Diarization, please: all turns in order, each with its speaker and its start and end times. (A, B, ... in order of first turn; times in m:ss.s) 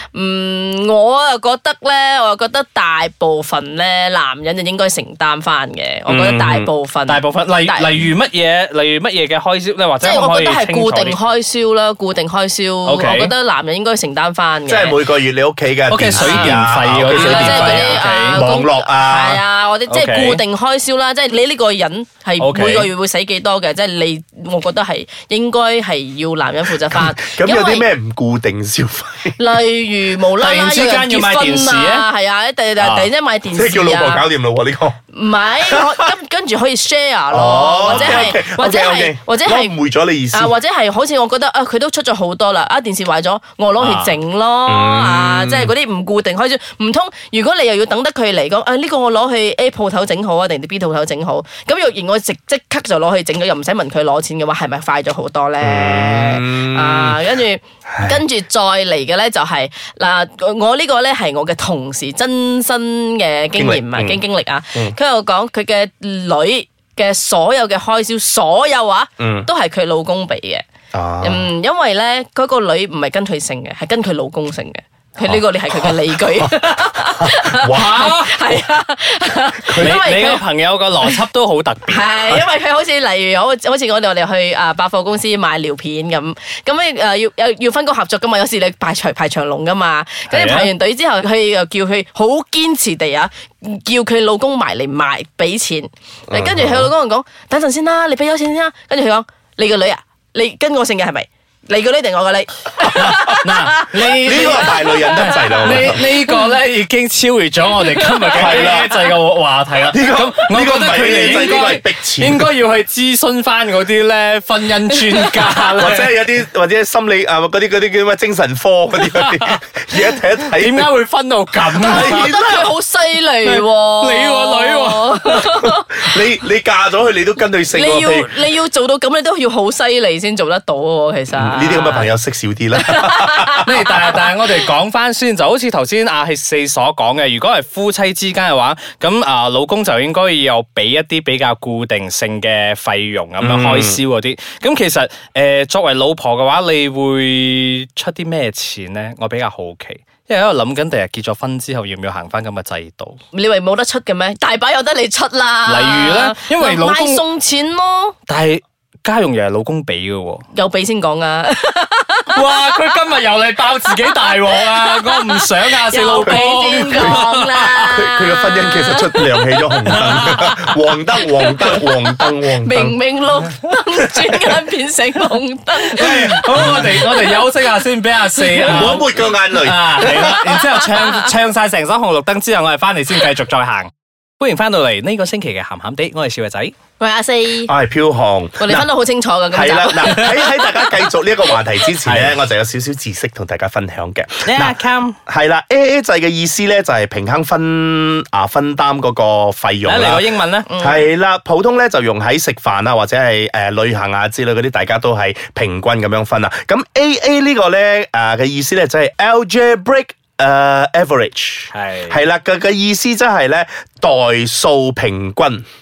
0:00.1-0:07.9 A
0:06.1-0:06.7 B
0:07.1-0:11.2 C
0:10.0-0:15.0 A
0:12.8-0:13.3 C
0:14.7-0:19.4 B
0:15.9-0:18.4 C
0:16.2-0:16.6 A
0:17.1-0:27.9 A
0:19.9-0:20.4 C
0:22.4-0:22.9 C
0:26.9-0:29.4 B
0:29.4-0:34.2 A
0:30.4-0:32.0 C
0:32.8-0:33.1 C
0:33.5-0:35.0 B
0:35.1-0:39.7 A
0:37.3-0:40.5 B
0:37.9-0:38.4 C
0:40.3-1:10.6 A
0:43.8-0:44.1 C
0:44.7-0:45.7 B
0:55.6-0:58.2 B
1:03.6-1:04.2 B
1:09.2-1:09.5 B
1:10.9-1:11.5 B
1:11.2-1:20.4 A
1:15.2-1:16.5 B
1:17.0-1:18.1 B
1:17.7-1:18.3 C
1:19.6-1:20.1 B
1:19.8-1:22.0 C
1:21.9-1:46.3 A
1:30.3-1:30.7 C
1:36.3-1:36.9 B
1:42.9-1:56.1 C
1:44.2-1:46.0 B
1:48.0-1:48.5 A
1:48.3-1:48.9 B
1:49.9-1:52.5 B
1:55.8-2:00.9 B
1:59.0-1:59.5 C
2:00.5-2:02.3 C
2:01.7-2:02.7 B
2:01.8-2:06.2 A
2:03.4-2:05.5 C
2:05.6-2:08.4 B
2:07.7-2:12.1 A
2:11.3-2:13.7 B
2:12.8-2:14.2 A
2:13.6-2:33.2 C
2:23.4-2:24.0 B
2:33.3-2:38.2 A
2:35.7-2:37.2 C
2:38.3-2:40.4 C
2:40.5-2:42.6 A
2:42.3-2:47.9 C
2:44.3-2:49.0 A
2:46.2-2:47.2 B
2:47.9-2:53.0 B
2:49.9-2:50.7 C
2:52.5-2:57.5 A
2:55.8-3:06.7 C
2:56.5-2:57.0 B
2:58.4-2:58.9 A
2:58.6-3:00.3 B
3:00.2-3:00.9 A
3:07.0-3:07.7 A
3:07.7-3:08.9 B
3:08.6-3:11.1 A
3:09.5-3:20.3 B
3:12.0-3:12.4 C
3:14.4-3:15.2 C
3:19.8-3:20.7 C
3:20.7-3:21.1 A
3:20.8-3:35.6 B
3:31.7-3:32.2 C